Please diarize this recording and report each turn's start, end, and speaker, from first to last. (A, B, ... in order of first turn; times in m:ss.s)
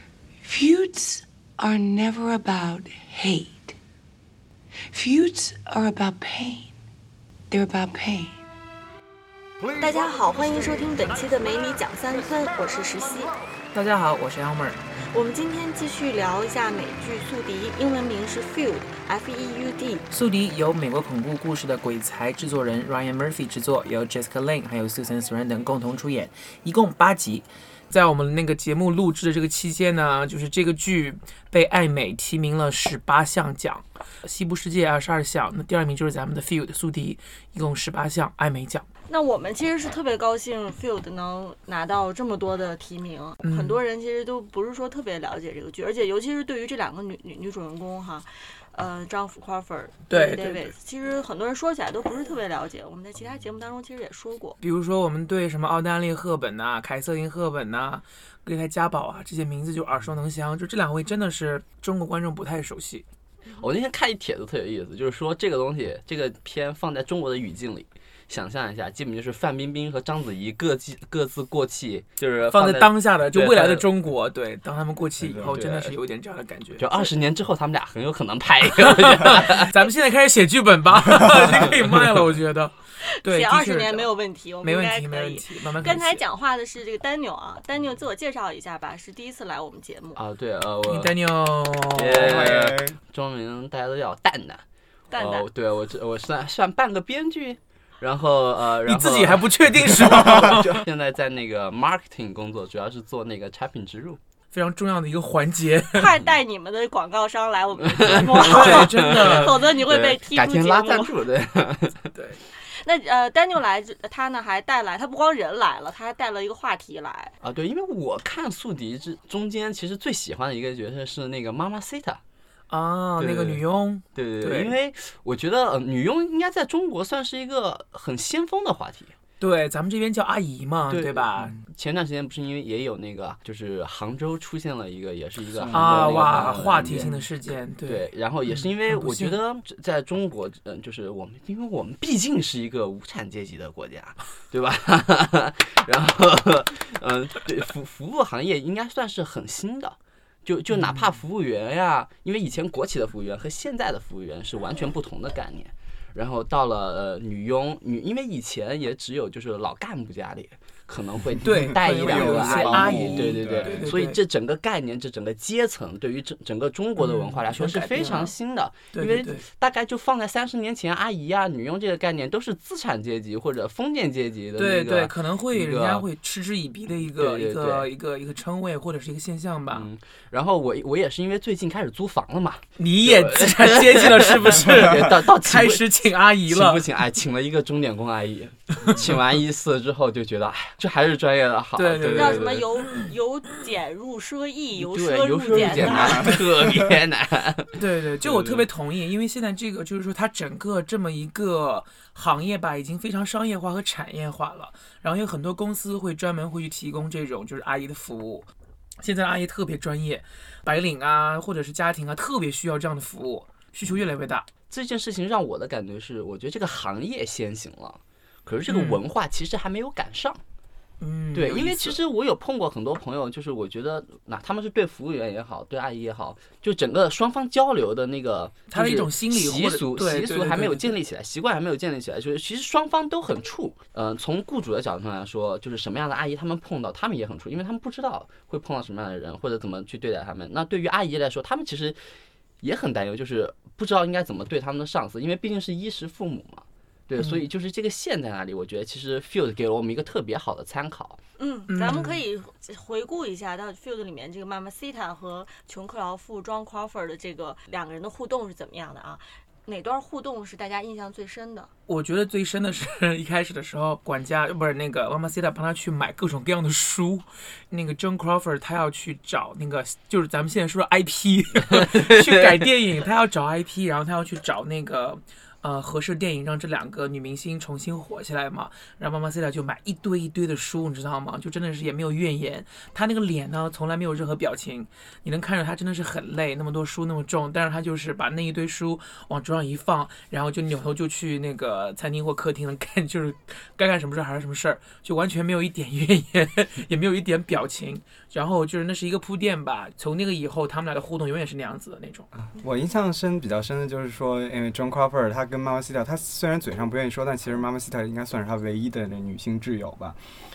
0:00.4-0:03.8 A
0:04.9-0:06.8 A
0:07.5-0:08.4 A
0:09.8-0:13.3 B
0:13.7-0:14.9 C
0:15.1-0:20.0 B
0:20.1-0:38.9 C
0:39.1-0:54.6 B
0:43.4-0:43.8 C
0:50.1-0:50.7 C
0:54.6-1:03.0 C
1:03.5-1:13.8 D
1:12.4-1:17.1 C
1:15.2-1:15.5 E
1:15.5-1:15.9 D
1:16.8-1:19.7 D
1:19.1-1:26.2 C
1:23.0-1:30.2 B
1:30.1-1:31.1 D
1:30.8-1:32.6 C
1:31.9-1:44.2 D
1:32.1-1:33.0 E
1:35.1-1:35.5 B
1:38.8-1:40.7 C
1:44.5-1:46.1 C
1:45.9-1:51.2 B
1:48.0-1:52.0 D
1:48.2-1:49.6 C
1:52.1-1:52.4 C
1:52.5-1:57.3 B
1:57.4-2:02.2 D
2:02.7-2:04.7 C
2:03.2-2:03.6 D
2:04.1-2:09.1 D
2:09.4-2:11.5 C
2:10.9-2:17.2 D
2:15.5-2:17.1 E
2:15.7-2:19.4 C
2:17.8-2:56.1 D
2:41.4-2:44.2 C
2:41.8-2:43.9 E
2:47.0-2:48.3 C
2:48.9-2:49.4 C
2:54.6-2:59.9 C
2:57.1-2:57.9 D
2:59.7-3:12.6 D
3:02.8-3:06.9 C
3:11.7-3:12.9 C
3:12.0-3:16.4 B
3:14.8-3:17.7 D
3:15.5-3:16.3 C
3:17.7-3:28.5 C
3:18.2-3:18.7 E
3:29.0-3:34.5 C
3:34.7-3:40.4 D
3:38.7-3:39.0 C
3:41.0-3:42.0 C
3:41.3-4:02.0 D
3:48.7-3:51.0 C
4:02.6-4:11.2 D
4:07.2-4:07.4 C
4:11.4-4:21.7 B
4:11.7-4:12.2 C
4:21.9-5:02.3 C
5:02.3-5:10.2 E